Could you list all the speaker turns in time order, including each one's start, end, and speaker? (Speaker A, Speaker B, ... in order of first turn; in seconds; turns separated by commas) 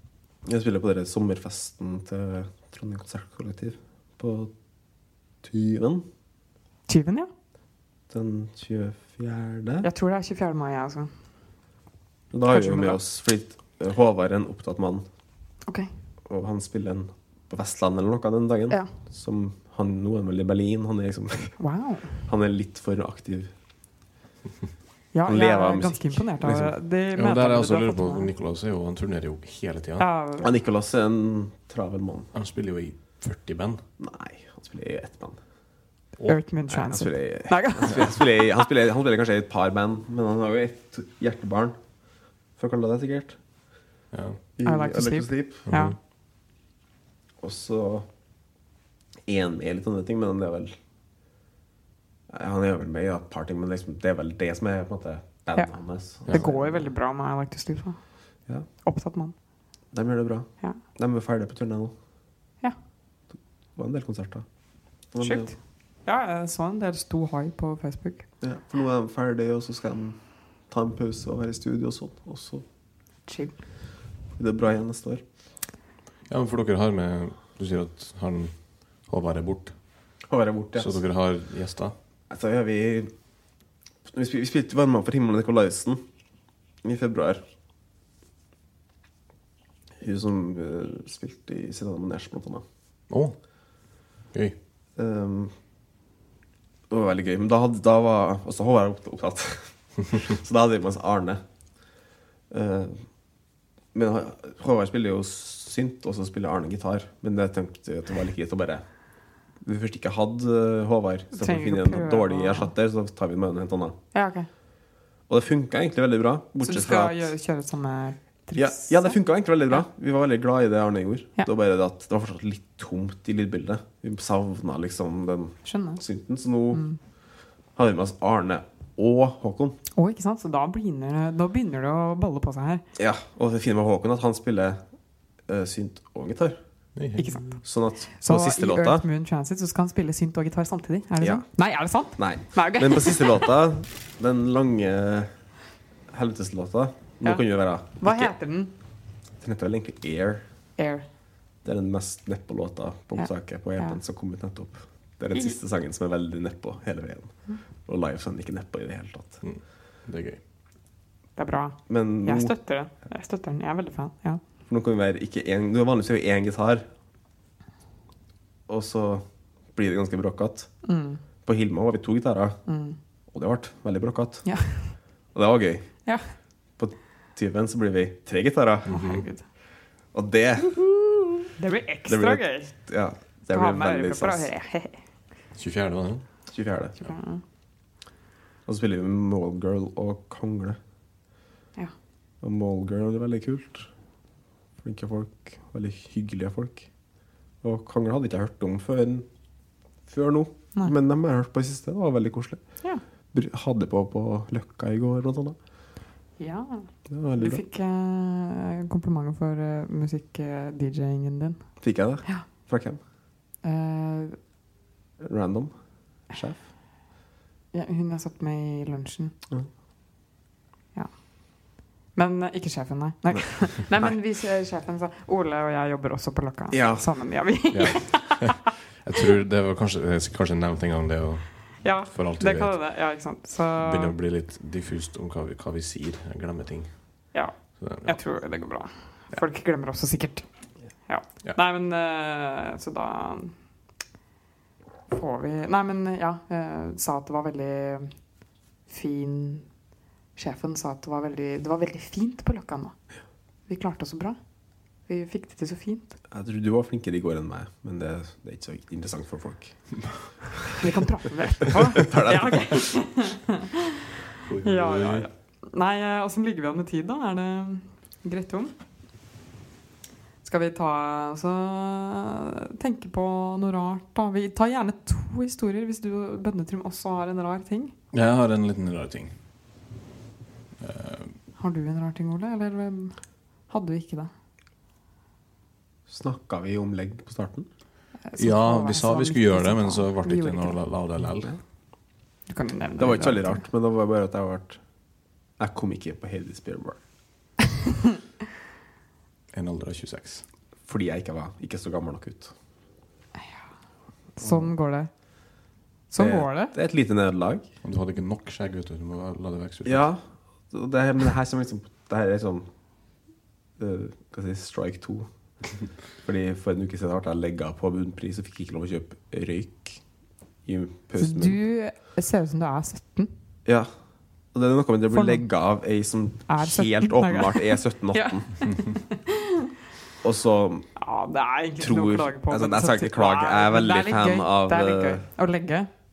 Speaker A: 0.4-4.5, Speaker A: 5.4-6.0, Speaker B: 6.9-7.3, Speaker A: 8.1-9.9, Speaker B: 9.8-11.1, Speaker A: 12.3-15.0, Speaker B: 12.5-13.0, Speaker A: 16.3-21.6, Speaker B: 21.6-22.1, Speaker A: 22.2-23.5, Speaker B: 25.1-28.3, Speaker A: 25.2-26.7, Speaker C: 27.1-30.1, Speaker B: 30.0-30.5, Speaker A: 30.4-32.3, Speaker C: 32.3-33.8, Speaker A: 34.0-35.4, Speaker B: 36.2-38.6, Speaker A: 36.7-41.8, Speaker A: 42.6-43.4, Speaker C: 44.1-44.4, Speaker A: 44.6-45.6, Speaker B: 44.6-45.9, Speaker C: 45.7-46.0, Speaker A: 47.4-48.1, Speaker A: 49.2-50.8, Speaker A: 52.3-56.9, Speaker B: 56.3-58.0, Speaker B: 58.8-59.3, Speaker A: 59.9-61.9, Speaker A: 63.8-64.4, Speaker A: 65.1-65.5, Speaker B: 65.2-65.5, Speaker B: 66.0-68.2, Speaker A: 68.4-70.2, Speaker A: 70.7-72.6, Speaker B: 73.3-73.5, Speaker A: 74.4-75.2, Speaker C: 76.3-78.5, Speaker C: 79.0-79.7, Speaker A: 80.3-80.9, Speaker C: 80.8-81.9, Speaker A: 82.3-83.1, Speaker A: 84.1-86.0, Speaker A: 86.8-87.4, Speaker A: 90.0-92.6, Speaker C: 93.1-93.4, Speaker A: 95.0-95.5, Speaker A: 96.9-101.4, Speaker A: 102.5-103.0, Speaker A: 103.9-108.8, Speaker A: 109.6-114.0, Speaker B: 111.3-112.7, Speaker B: 114.1-114.5, Speaker A: 115.3-117.3, Speaker B: 116.6-119.2, Speaker A: 118.5-126.8, Speaker B: 125.6-126.0, Speaker B: 126.7-127.0, Speaker A: 127.8-129.8, Speaker B: 129.9-132.8, Speaker A: 132.9-134.8, Speaker A: 135.5-136.6, Speaker C: 136.9-137.4, Speaker B: 137.2-137.6, Speaker A: 137.6-139.0, Speaker B: 138.1-143.4, Speaker A: 141.2-141.4, Speaker A: 142.1-145.3, Speaker A: 146.1-148.3, Speaker B: 147.2-148.7, Speaker A: 149.4-150.4, Speaker B: 150.8-151.0, Speaker A: 151.6-159.4, Speaker C: 159.4-160.4, Speaker B: 161.4-164.4, Speaker A: 161.9-162.5, Speaker A: 164.7-166.8, Speaker A: 168.7-170.7, Speaker B: 170.8-171.2, Speaker A: 171.4-172.6, Speaker B: 172.7-173.0, Speaker A: 173.3-174.4, Speaker B: 174.4-174.9, Speaker A: 175.3-175.9, Speaker A: 176.8-178.9, Speaker B: 178.9-179.4, Speaker C: 178.9-179.2, Speaker A: 180.1-181.5, Speaker B: 181.6-182.7, Speaker A: 182.1-184.5, Speaker B: 183.5-185.0, Speaker C: 185.5-186.2, Speaker A: 186.5-186.9, Speaker B: 187.0-187.4, Speaker A: 188.7-190.8, Speaker A: 192.4-193.9, Speaker A: 194.8-196.9, Speaker A: 197.6-199.3, Speaker A: 200.1-202.7, Speaker A: 203.3-205.6, Speaker B: 206.4-212.4, Speaker A: 207.1-207.6, Speaker A: 211.8-213.0, Speaker B: 213.6-214.4, Speaker A: 215.2-216.6, Speaker B: 217.7-219.3, Speaker B: 220.9-228.6, Speaker A: 226.7-227.1, Speaker C: 227.7-232.8, Speaker B: 231.8-234.1, Speaker C: 233.8-237.2, Speaker B: 237.3-240.4, Speaker C: 237.8-238.2, Speaker B: 241.1-243.6, Speaker B: 245.1-248.2, Speaker B: 248.9-249.7, Speaker B: 250.3-253.0, Speaker B: 253.7-254.4, Speaker B: 255.1-256.1, Speaker A: 256.3-259.8, Speaker B: 260.8-263.8, Speaker A: 261.7-262.9, Speaker C: 264.4-265.3, Speaker B: 264.6-268.7, Speaker B: 270.4-277.9, Speaker C: 278.1-279.3, Speaker C: 280.8-281.3, Speaker B: 281.6-284.3, Speaker A: 286.1-287.7, Speaker B: 288.3-290.8, Speaker C: 288.4-291.6, Speaker B: 292.5-293.6, Speaker A: 293.0-294.8, Speaker A: 295.6-297.0, Speaker C: 299.5-300.4, Speaker A: 300.9-302.5, Speaker B: 304.4-305.1, Speaker A: 304.4-304.7, Speaker B: 306.1-306.7, Speaker A: 306.2-307.6, Speaker C: 307.8-310.1, Speaker A: 309.8-312.6, Speaker A: 313.8-315.3, Speaker A: 316.2-320.0, Speaker A: 320.6-321.6, Speaker B: 321.2-323.3, Speaker A: 323.6-323.9, Speaker A: 324.5-328.5, Speaker B: 325.1-325.4, Speaker B: 326.5-329.6, Speaker A: 330.2-330.9, Speaker B: 331.0-335.9, Speaker A: 331.8-335.2